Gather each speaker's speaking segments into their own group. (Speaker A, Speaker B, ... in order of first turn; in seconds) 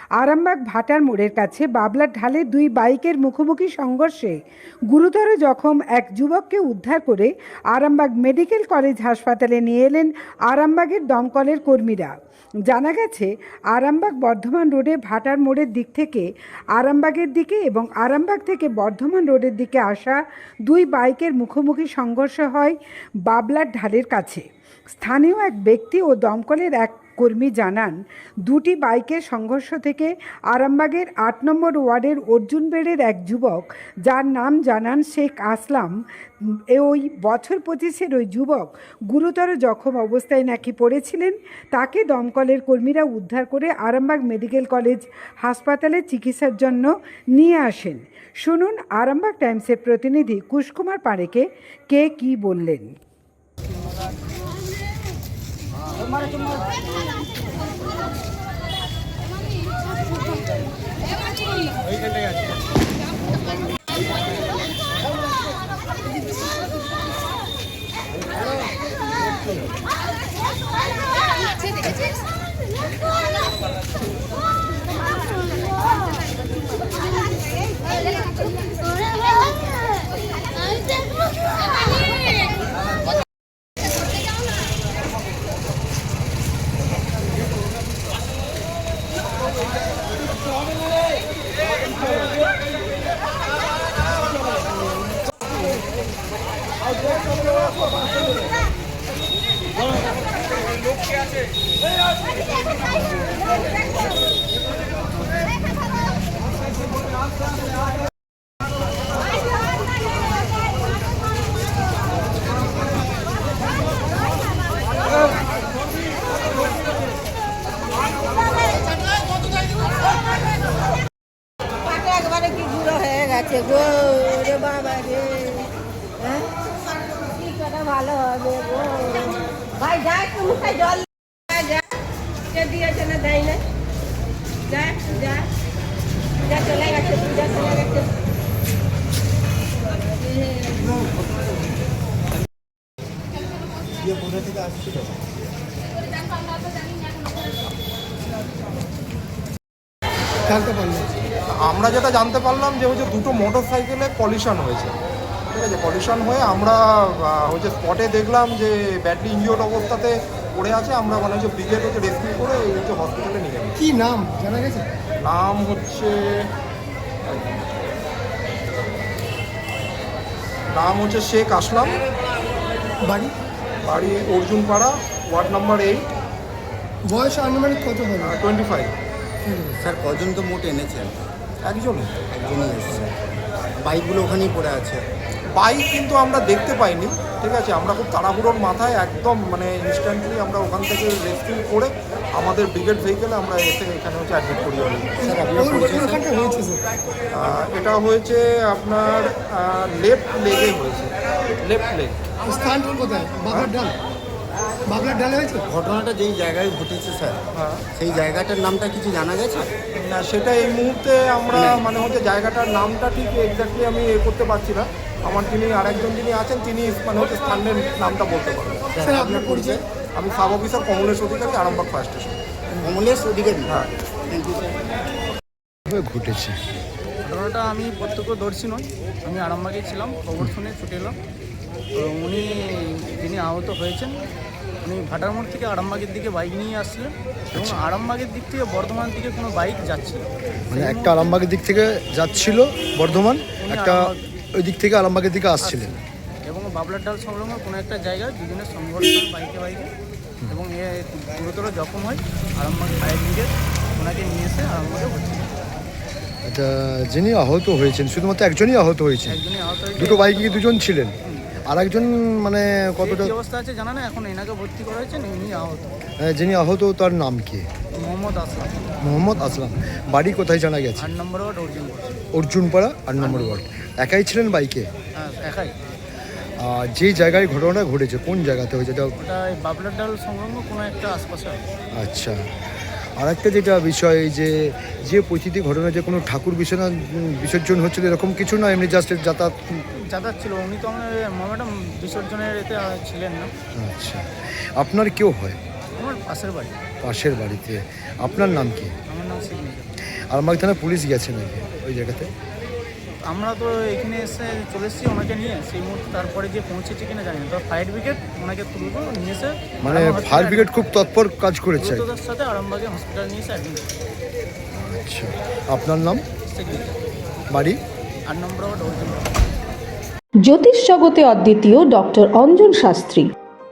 Speaker A: 0.2-4.4, 4.9-12.1, 12.7-16.3, 16.8-22.8, 23.3-35.9, 36.7-52.9
Speaker B: 121.9-125.7, 127.2-131.0, 132.5-133.6, 134.7-135.4, 136.5-138.1
Speaker C: 144.3-144.7, 179.7-181.3, 182.2-185.0, 195.2-196.2, 205.7-209.7, 211.5-211.9, 218.9-219.8, 222.8-224.8
Speaker D: 150.5-151.1, 163.8-164.9, 173.0-173.3, 177.1-178.3, 195.2-196.8, 202.4-204.0, 204.9-205.6, 219.1-219.8
Speaker E: 151.5-155.0, 155.5-163.8, 165.2-166.5, 167.3-167.6, 170.7-172.0, 173.9-176.0, 178.2-178.9, 181.7-182.2, 185.6-195.4, 197.3-202.3, 207.6-207.8, 209.8-218.9, 220.2-222.4
Speaker F: 225.9-226.6, 237.5-237.8, 240.7-245.9, 256.4-259.4, 260.0-261.1, 261.7-263.3, 266.2-267.7, 269.0-271.1, 272.4-274.9, 276.6-279.1, 282.0-282.4, 283.2-289.6, 293.8-295.6, 297.0-298.9, 300.3-302.3, 309.8-312.1, 314.8-316.2, 317.5-317.8
Speaker G: 227.2-231.2, 232.0-234.2, 234.8-241.4, 243.5-244.2, 245.6-249.9, 250.5-255.5, 259.3-260.6, 263.0-265.9, 268.0-268.8, 271.0-272.1, 273.2-273.6, 275.2-275.7, 279.2-281.6, 289.7-293.5, 296.0-296.8, 299.1-299.9, 303.3-310.7, 311.8-313.9, 316.5-317.0, 318.3-319.3
Speaker H: 320.4-323.3